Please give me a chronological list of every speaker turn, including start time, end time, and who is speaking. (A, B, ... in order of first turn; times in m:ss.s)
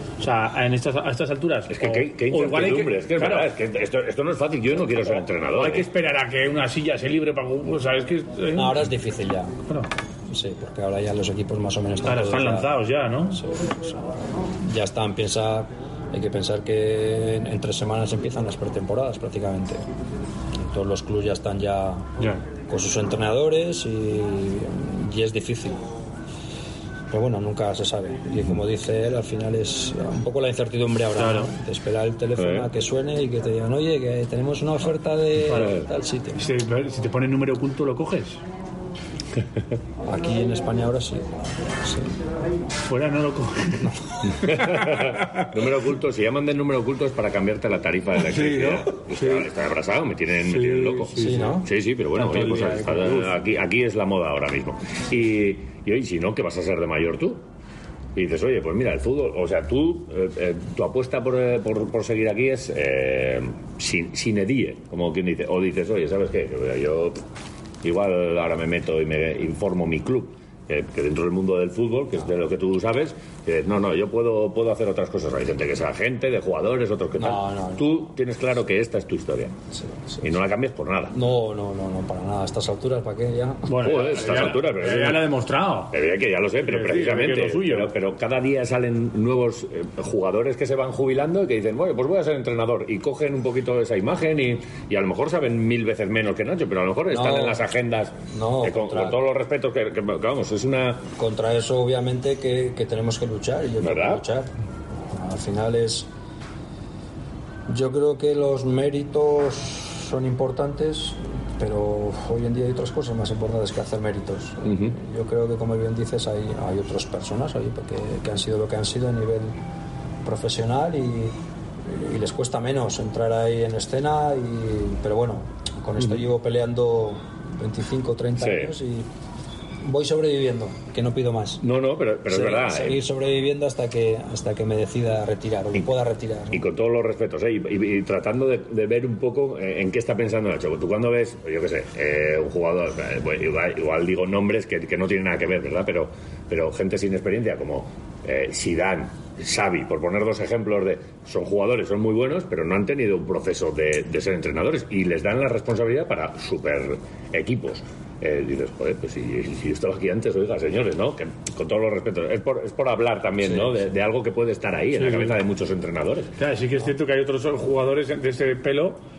0:00.2-0:03.5 A
0:01.7-0:05.8 B
0:05.5-0:08.9 A
0:08.5-0:09.6 C
0:10.3-0:12.7 C
0:12.0-0:13.4 A
0:13.2-0:19.8 C
0:20.6-0:22.1 C
0:22.7-0:25.8 C
0:27.1-0:36.4 C
0:31.1-0:31.5 A
0:32.4-0:32.7 B
0:35.4-0:38.4 A
0:35.5-0:35.8 B
0:40.0-0:42.1 C
0:42.9-0:44.5 A
0:44.4-0:57.4 B
0:48.2-0:49.5 A
0:50.4-0:51.5 A
0:51.1-0:51.7 C
0:52.1-0:53.4 A
0:58.1-1:07.2 B
1:07.8-1:19.5 B
1:17.2-1:18.0 C
1:19.7-1:20.4 C
1:20.2-1:21.1 B
1:21.1-1:23.8 C
1:23.6-1:25.9 A
1:23.8-1:25.3 B
1:25.9-1:41.0 B
1:26.6-1:27.9 A
1:37.1-1:37.6 C
1:38.2-1:39.2 C
1:41.2-1:44.5 C
1:43.8-1:44.2 B
1:45.1-1:46.1 C
1:47.7-1:59.5 C
1:54.6-1:54.9 B
2:00.2-2:09.1 C
2:06.0-2:06.2 B
2:08.4-2:08.7 B
2:09.8-2:11.6 C
2:11.6-2:13.0 B
2:12.3-2:16.6 C
2:16.5-2:46.3 B
2:43.4-2:43.8 C
2:44.9-2:45.4 A
2:46.4-2:49.0 A